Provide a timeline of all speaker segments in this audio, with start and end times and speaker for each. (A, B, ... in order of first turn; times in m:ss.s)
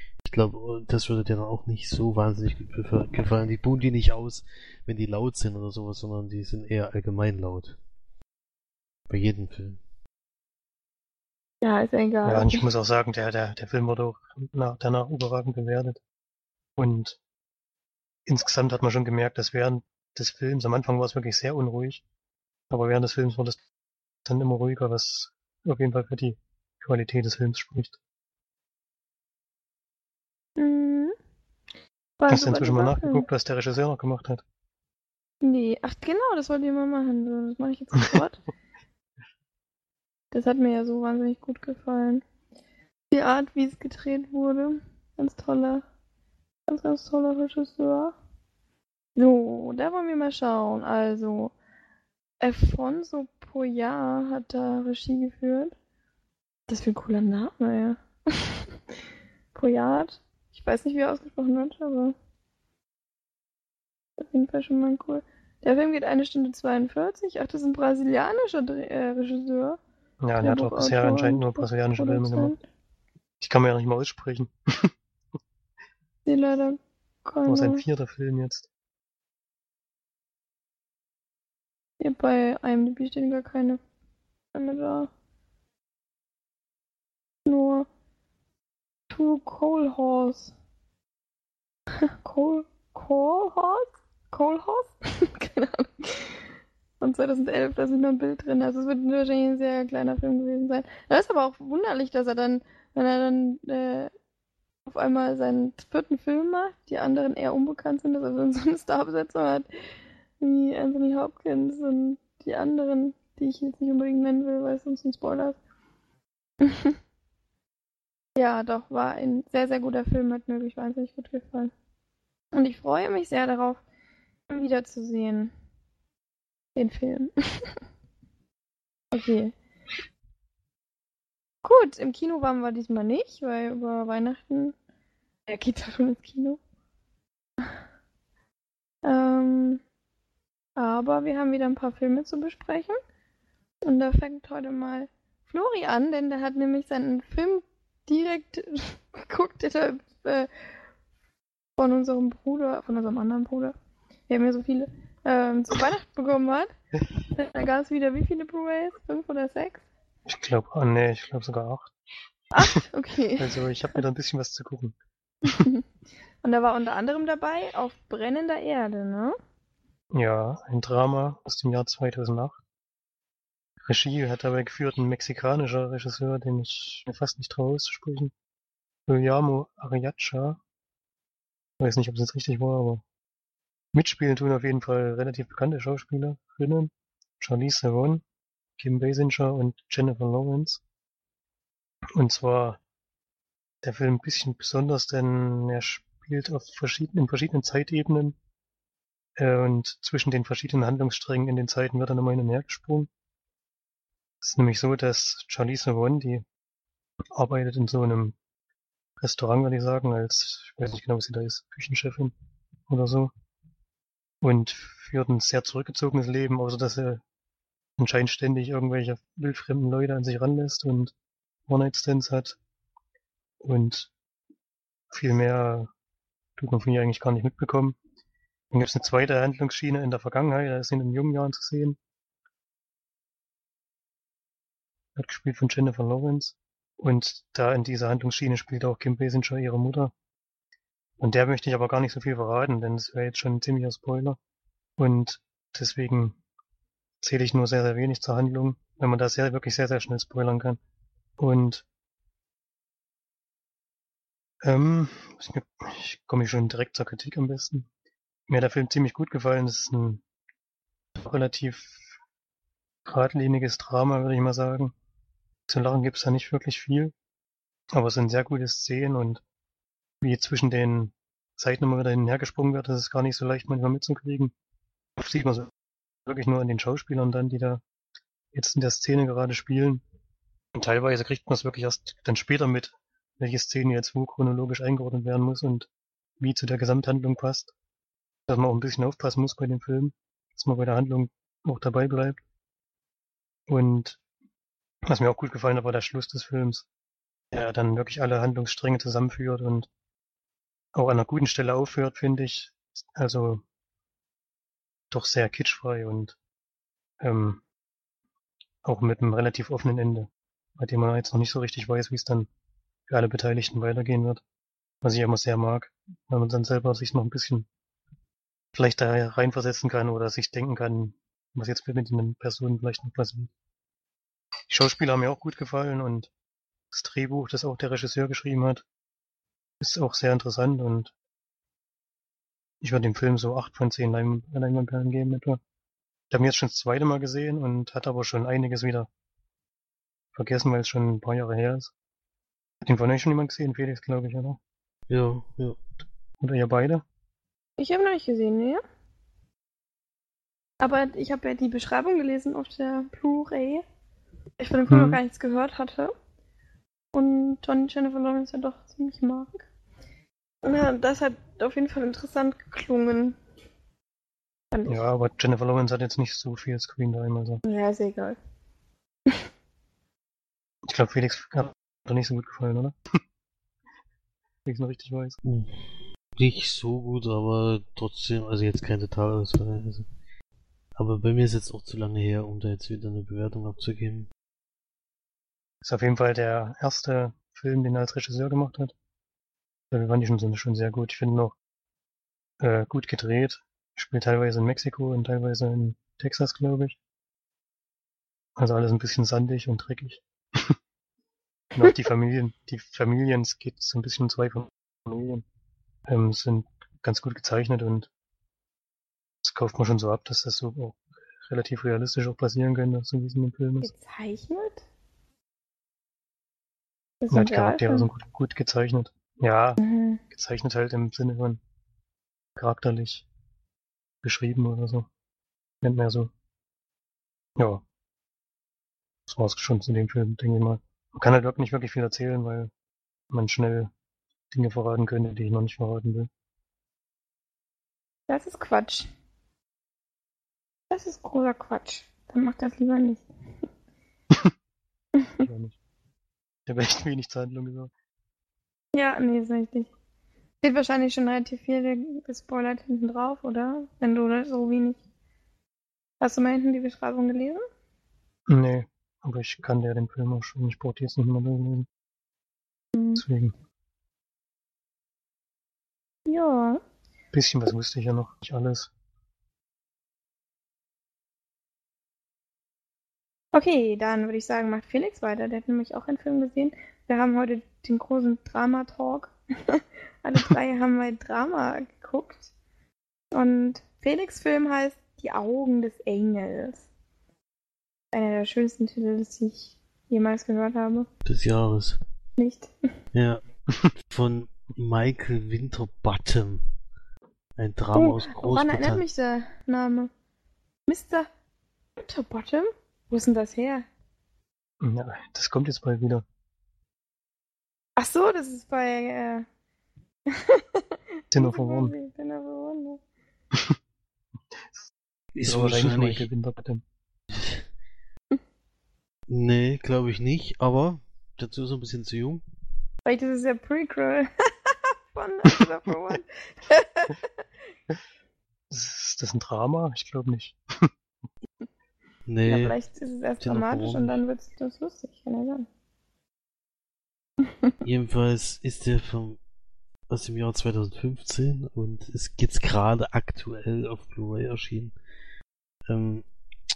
0:00.2-0:07.8 A
0:09.1-0:09.8 A
0:11.6-0:12.7 B
0:12.3-0:16.0 C
0:16.8-0:17.2 C
0:18.3-0:22.0 C
0:22.7-0:23.6 C
0:24.2-0:28.0 C
0:30.6-0:31.1 B
0:32.2-0:33.2 B
0:32.3-0:34.4 C
0:35.4-0:38.4 B
0:40.3-0:42.2 B
0:43.1-0:45.8 B
0:46.7-0:48.2 B
0:49.2-0:51.5 B
0:52.4-0:55.8 B
0:56.7-0:58.7 B
0:59.5-1:02.2 B
1:04.2-1:09.8 B
1:10.2-1:12.5 C
1:10.4-1:12.6 B
1:13.4-1:14.9 C
1:16.3-1:17.8 B
1:17.5-1:18.7 C
1:22.0-1:23.8 B
1:24.5-1:25.1 B
1:27.5-1:27.9 B
1:29.1-1:30.5 B
1:32.1-1:36.4 B
1:37.0-1:44.1 B
1:44.9-1:49.7 B
1:50.4-1:55.6 B
1:56.6-1:57.0 B
1:58.4-2:01.7 B
2:02.5-2:03.8 B
2:04.5-2:05.5 B
2:06.8-2:07.7 B
2:09.1-2:09.5 B
2:11.6-2:14.8 B
2:15.5-2:16.6 B
2:19.0-2:19.8 B
2:20.8-2:23.0 B
2:23.8-2:30.5 B
2:31.8-2:33.8 B
2:34.3-2:36.7 B
2:37.3-2:39.8 B
2:40.3-2:41.9 C
2:42.5-2:43.7 B
2:43.4-2:45.0 C
2:45.5-2:45.8 B
2:46.4-2:49.4 B
2:50.1-2:52.6 C
2:53.8-2:58.3 C
2:59.1-3:00.6 C
3:01.8-3:03.0 C
3:03.9-3:08.2 C
3:08.8-3:10.8 C
3:12.2-3:12.8 C
3:13.8-3:18.4 C
3:19.4-3:23.1 C
3:24.4-3:26.4 C
3:27.3-3:28.4 C
3:29.2-3:32.3 C
3:32.9-3:33.3 C
3:34.4-3:37.2 C
3:38.0-3:41.1 C
3:41.7-3:42.6 C
3:43.6-3:44.1 C
3:45.1-3:45.9 C
3:46.6-3:48.0 C
3:48.7-3:52.0 C
3:55.2-4:00.1 C
4:01.2-4:04.4 C
4:05.0-4:06.4 C
4:07.2-4:10.8 C
4:11.4-4:11.8 C
4:14.6-4:17.9 C
4:18.5-4:20.2 C
4:21.2-4:22.1 C
4:23.1-4:24.9 C
4:25.7-4:27.1 C
4:27.9-4:29.4 C
4:30.2-4:34.5 C
4:35.2-4:35.7 C
4:36.3-4:37.8 C
4:38.5-4:40.0 C
4:40.8-4:45.9 C
4:46.4-4:47.7 C
4:48.5-4:52.4 C
4:53.7-4:54.2 C
4:55.1-4:56.9 C
4:57.5-4:59.9 C
5:01.0-5:03.6 C
5:05.1-5:06.4 C
5:07.2-5:07.6 C
5:08.8-5:12.5 C
5:13.1-5:14.4 C
5:15.0-5:17.7 C
5:18.7-5:23.5 C
5:24.7-5:26.3 C
5:26.9-5:28.8 C
5:29.8-5:31.1 C
5:32.8-5:35.6 C
5:36.3-5:39.1 C
5:40.4-5:41.9 C
5:42.8-5:44.6 C
5:45.1-5:45.8 A
5:46.4-5:47.0 C
5:47.8-5:48.8 B
5:50.8-5:53.8 B
5:54.6-5:56.1 B
5:54.9-5:55.2 C
5:57.1-5:59.7 B
6:00.6-6:03.4 B
6:04.7-6:05.0 B
6:04.9-6:07.6 C
6:07.6-6:08.4 B
6:10.9-6:13.0 C
6:14.6-6:15.4 C
6:15.4-6:15.8 A
6:16.4-6:20.1 A
6:21.0-6:24.3 A
6:25.8-6:29.0 C
6:29.9-6:31.6 C
6:32.6-6:37.0 C
6:38.6-6:40.8 C
6:41.7-6:45.4 C
6:46.1-6:48.1 C
6:49.4-6:53.9 C
6:53.8-6:54.8 B
6:57.2-6:58.1 B
6:57.3-6:59.8 C
6:59.8-7:00.2 B
7:00.3-7:01.6 C
7:02.6-7:03.3 C
7:04.2-7:05.1 C
7:05.8-7:06.3 C
7:07.6-7:07.8 C
7:09.3-7:12.7 C
7:13.3-7:13.9 C
7:14.5-7:16.3 C
7:18.3-7:19.1 B
7:20.9-7:23.2 B
7:25.2-7:25.4 B
7:25.4-7:25.8 C
7:26.7-7:27.9 C
7:28.9-7:29.9 B
7:30.6-7:35.0 B
7:36.2-7:37.6 B
7:38.5-7:41.9 C
7:43.0-7:43.2 B
7:43.2-7:43.5 C
7:46.3-7:46.8 B
7:47.3-7:48.9 C
7:53.5-8:02.5 B
8:03.3-8:06.9 B
8:08.1-8:11.1 B
8:11.2-8:12.0 A
8:12.4-8:12.7 B
8:13.1-8:13.4 A
8:14.1-8:16.6 A
8:17.6-8:19.0 A
8:18.0-8:20.1 B
8:20.9-8:21.3 B
8:22.0-8:23.9 B
8:24.8-8:26.2 C
8:28.0-8:29.5 B
8:30.3-8:33.0 B
8:31.3-8:31.9 C
8:35.4-8:36.3 A
8:35.4-8:36.8 C
8:37.3-8:37.6 A
8:39.3-8:42.4 A
8:43.0-8:47.2 B
8:48.7-8:50.9 C
8:52.3-8:52.8 A
8:52.4-8:55.7 B
8:53.4-8:54.2 A
8:57.5-8:57.7 B
8:57.8-8:59.4 A
9:00.1-9:05.0 A
9:05.9-9:06.2 A